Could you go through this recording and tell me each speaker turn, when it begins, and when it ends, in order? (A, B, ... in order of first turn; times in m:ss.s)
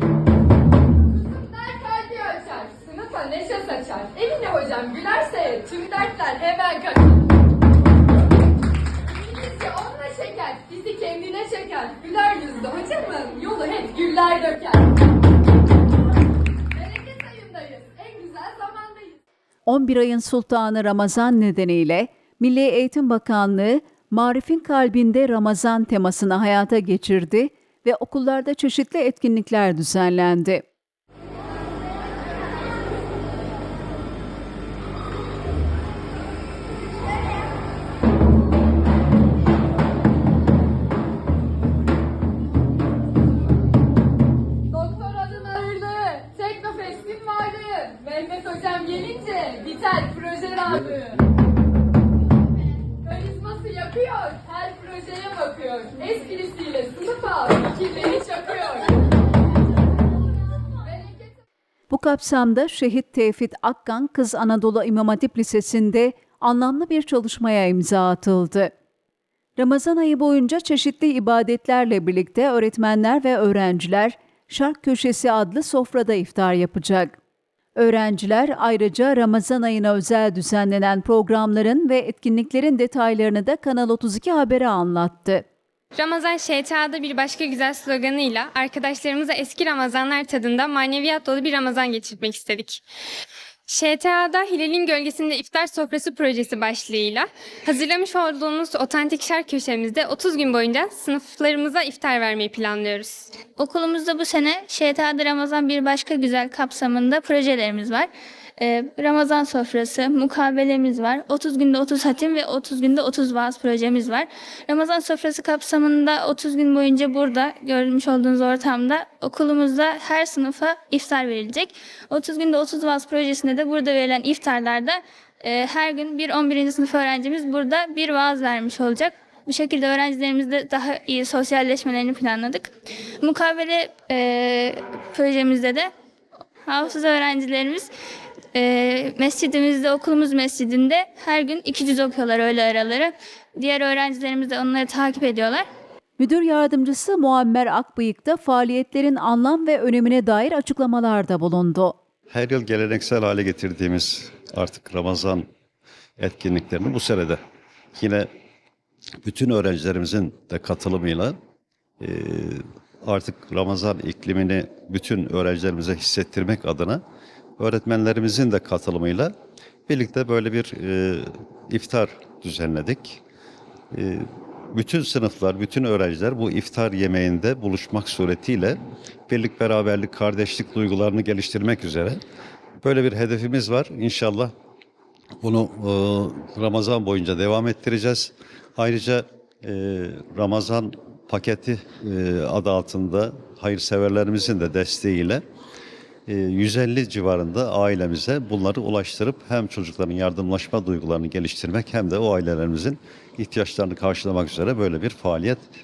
0:01.1-0:07.3 A
0:09.1-0:15.0 A
0:16.7-0:19.2 A
0:19.7-0:30.6 B
0:44.7-0:51.2 A
0:53.0-0:59.1 A
1:00.8-1:01.4 A
1:01.9-1:08.7 B
1:09.6-1:17.2 B
1:17.8-1:25.4 B
1:25.9-1:32.8 C
1:33.7-1:43.5 C
1:43.5-2:12.7 D
2:13.2-2:15.9 D
2:16.7-2:17.9 D
2:18.6-2:25.6 D
2:26.2-2:32.0 B
2:32.3-2:35.5 E
2:36.2-2:37.4 E
2:38.0-2:38.3 E
2:39.2-2:41.4 E
2:42.0-2:47.0 E
2:47.6-2:49.3 E
2:49.9-2:53.2 E
2:53.9-3:02.2 E
3:02.8-3:04.5 E
3:05.4-3:15.4 E
3:16.3-3:25.6 E